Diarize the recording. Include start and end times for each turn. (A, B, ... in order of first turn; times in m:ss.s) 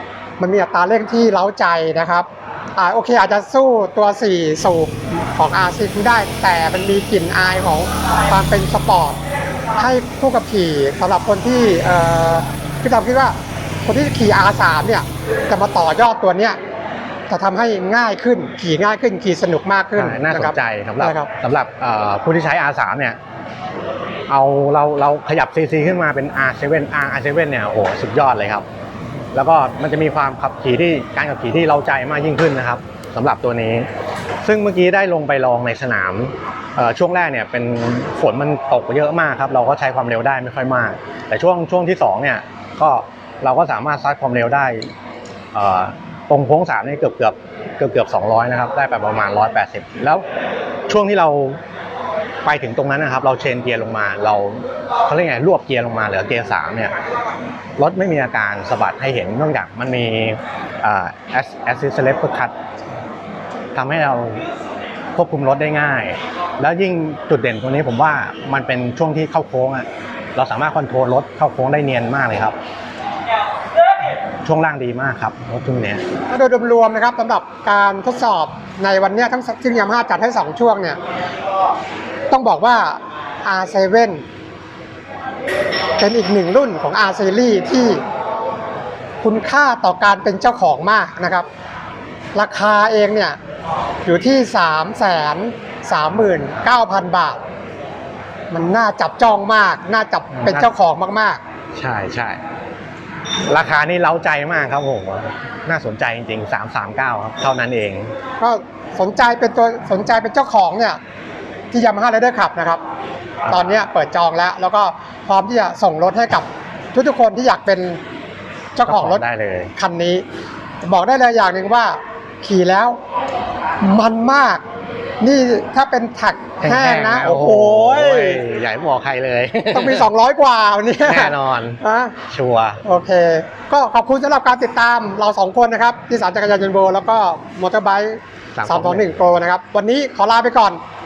0:00.4-0:09.2 A
0:09.8-0:16.6 A
0:17.3-0:21.3 A
0:20.0-0:23.2 B
0:24.3-0:28.6 B
0:29.3-0:33.9 B
0:34.4-0:44.9 B
0:45.5-0:50.2 B
0:50.9-0:51.6 B
0:52.4-0:56.9 B
0:57.8-1:02.5 B
1:03.7-1:04.4 B
1:05.1-1:12.6 B
1:14.4-1:16.0 B
1:16.3-1:21.0 A
1:22.3-1:24.2 A
1:26.0-1:28.0 A
1:29.2-1:31.5 A
1:32.3-1:33.4 A
1:34.0-1:37.4 A
1:38.5-1:41.4 A
1:40.4-1:40.7 B
1:41.7-1:42.4 B
1:43.5-1:48.1 B
1:48.4-1:51.0 A
1:51.7-1:52.8 A
1:53.4-1:53.8 B
1:53.4-1:58.0 A
1:58.8-1:59.2 A
1:58.8-1:59.7 B
1:59.7-2:00.2 A
2:00.8-2:03.0 A
2:03.8-2:04.6 A
2:05.2-2:08.4 A
2:06.6-2:10.1 B
2:09.7-2:12.2 A
2:11.0-2:12.8 B
2:12.8-2:20.8 A
2:18.6-2:19.1 B